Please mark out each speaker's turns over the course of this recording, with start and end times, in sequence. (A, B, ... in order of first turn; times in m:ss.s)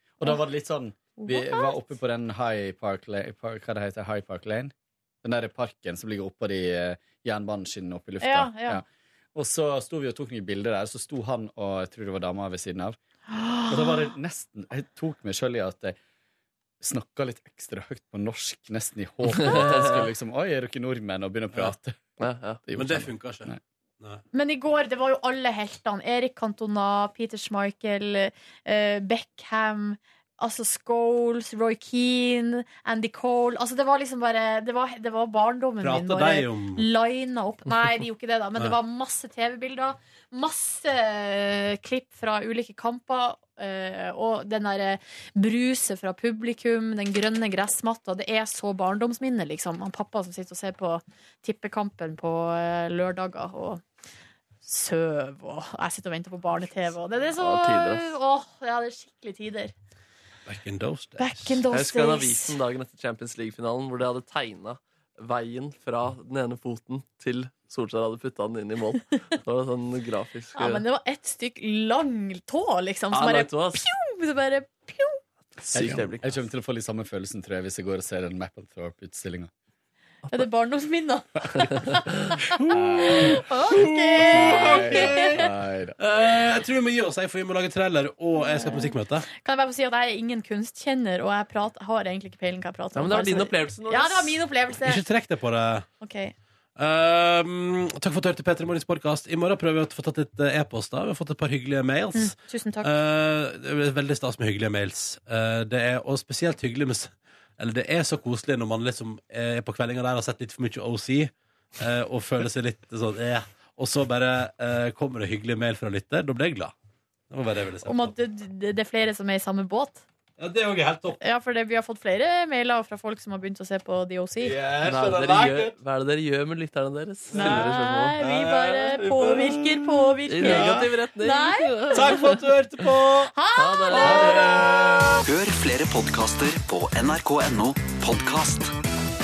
0:00.2-0:13.0 A
0:01.2-0:01.8 B
0:08.2-0:08.8 B
0:13.3-0:14.0 B
0:13.7-0:16.0 A
0:16.8-0:23.6 A
0:22.2-0:22.6 C
0:22.7-0:24.2 D
0:24.3-0:53.8 B
0:35.8-0:36.9 D
0:54.6-0:59.7 B
0:57.4-0:58.1 C
1:00.4-1:01.6 D
1:01.2-1:02.5 B
1:01.7-1:10.8 C
1:10.6-1:15.2 B
1:13.1-1:13.8 C
1:15.7-1:16.3 C
1:15.7-1:19.5 A
1:15.8-1:16.1 D
1:20.3-1:22.5 B
1:22.6-1:23.4 A
1:23.1-1:25.4 B
1:24.0-1:29.2 D
1:24.3-1:26.0 A
1:28.4-1:35.0 B
1:32.9-1:34.4 C
1:34.8-1:35.8 D
1:36.0-1:36.3 B
1:36.8-1:56.7 D
1:42.1-1:42.9 B
1:57.3-1:58.1 D
1:57.8-2:00.0 B
2:00.4-2:01.2 D
2:01.2-2:04.6 B
2:04.4-2:05.7 D
2:04.8-2:08.2 C
2:07.3-2:10.9 D
2:07.3-2:12.3 B
2:10.3-2:12.3 C
2:11.9-2:13.3 D
2:13.3-2:15.1 B
2:13.6-2:14.6 C
2:13.9-2:15.2 D
2:15.2-2:18.7 E